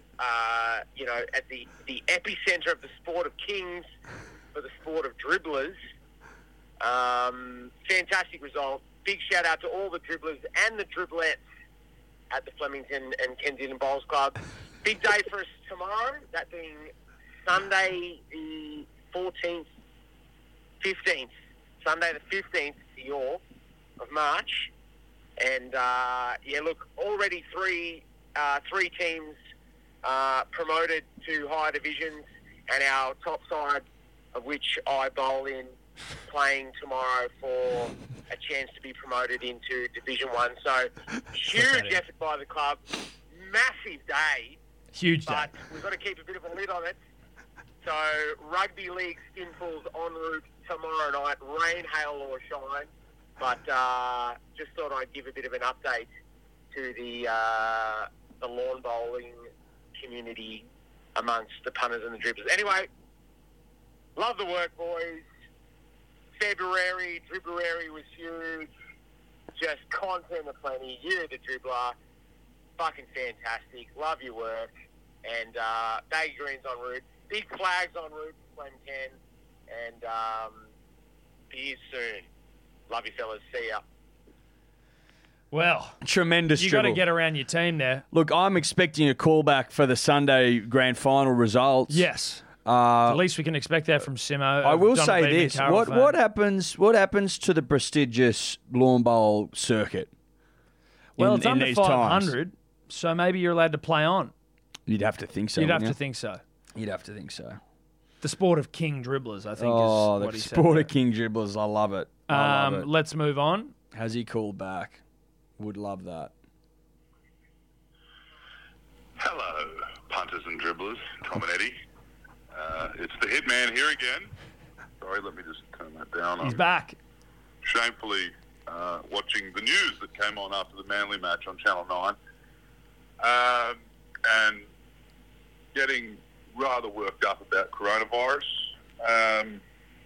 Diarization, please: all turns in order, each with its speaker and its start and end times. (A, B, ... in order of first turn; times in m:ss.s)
0:00.2-0:03.9 A
0:04.5-0:05.8 A
0:06.8-0:11.4 A
0:12.3-0:16.9 A
0:17.4-0:19.7 A
0:20.8-0:23.4 A
0:24.0-0:24.7 A
0:25.4-0:29.4 A
0:30.0-0:35.8 A
0:36.3-0:44.6 A
0:41.5-0:42.0 B
0:44.9-0:45.6 B
0:45.3-0:47.0 A
0:47.8-0:56.1 A
0:56.7-1:02.9 A
1:04.2-1:05.3 A
1:06.4-1:08.7 A
1:09.5-1:12.0 A
1:12.8-1:14.7 A
1:15.2-1:19.2 A
1:19.7-1:20.7 A
1:21.5-1:22.3 A
1:22.9-1:23.8 A
1:25.5-1:26.0 B
1:26.0-1:27.0 C
1:26.5-1:28.0 B
1:28.1-1:32.1 C
1:31.9-1:32.4 B
1:32.6-1:33.2 C
1:33.0-1:36.2 B
1:34.6-1:40.1 C
1:41.2-1:42.3 C
1:41.2-1:44.3 B
1:44.9-1:46.0 C
1:45.6-1:46.4 B
1:46.7-1:47.6 C
1:48.2-1:50.9 B
1:49.6-1:52.9 C
1:52.3-1:53.7 B
1:53.9-1:55.0 C
1:55.6-1:56.3 C
1:59.2-2:01.7 D
2:02.5-2:04.3 D
2:05.0-2:06.6 D
2:06.4-2:07.0 B
2:07.6-2:12.2 D
2:13.2-2:14.7 D
2:15.7-2:19.6 D